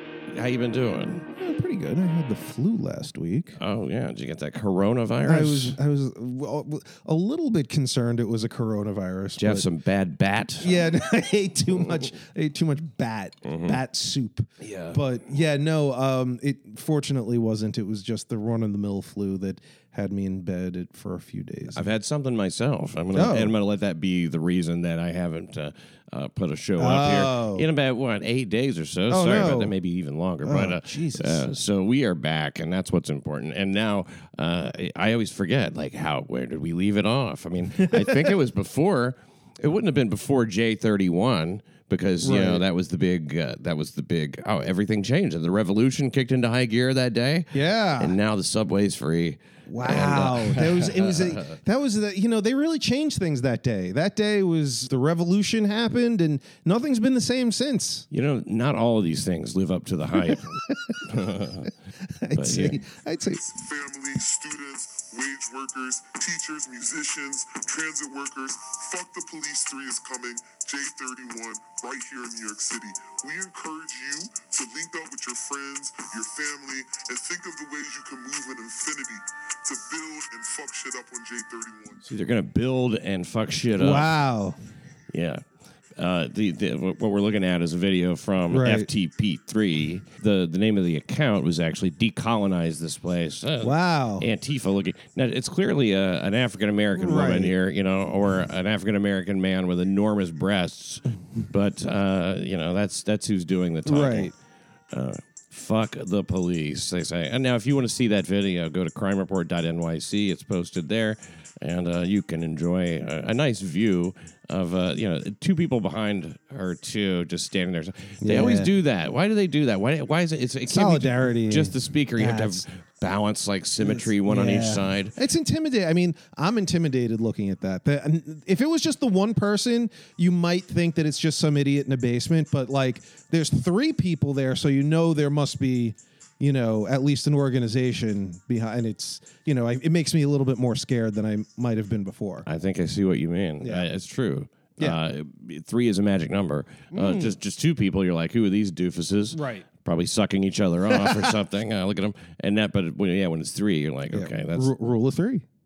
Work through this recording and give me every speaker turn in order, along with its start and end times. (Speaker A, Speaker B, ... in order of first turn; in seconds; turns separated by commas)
Speaker A: 0.3-1.2, Speaker B: 1.2-3.5, Speaker A: 3.6-5.8, Speaker B: 5.2-9.7, Speaker A: 9.4-10.9, Speaker B: 10.6-21.8, Speaker A: 13.4-13.8, Speaker A: 14.6-15.0, Speaker A: 21.7-51.6, Speaker B: 23.1-23.5, Speaker B: 26.8-27.7, Speaker B: 29.1-29.7, Speaker B: 30.4-31.5, Speaker B: 37.8-38.3, Speaker B: 42.2-42.6, Speaker B: 47.5-48.2, Speaker B: 49.7-58.1, Speaker A: 58.1-61.7, Speaker B: 60.2-63.4, Speaker A: 62.3-62.8, Speaker C: 63.4-82.0, Speaker A: 82.1-84.1, Speaker B: 83.8-84.6, Speaker A: 85.1-85.4, Speaker A: 86.0-104.3, Speaker B: 88.5-88.9, Speaker B: 93.6-94.3, Speaker B: 97.0-97.5, Speaker B: 103.8-104.3, Speaker A: 104.9-125.2, Speaker B: 118.2-118.7, Speaker B: 120.7-122.6, Speaker B: 123.8-142.5, Speaker A: 142.4-154.7, Speaker B: 143.6-143.9, Speaker B: 146.9-147.3, Speaker B: 149.3-149.7, Speaker B: 150.9-151.3, Speaker B: 154.1-155.5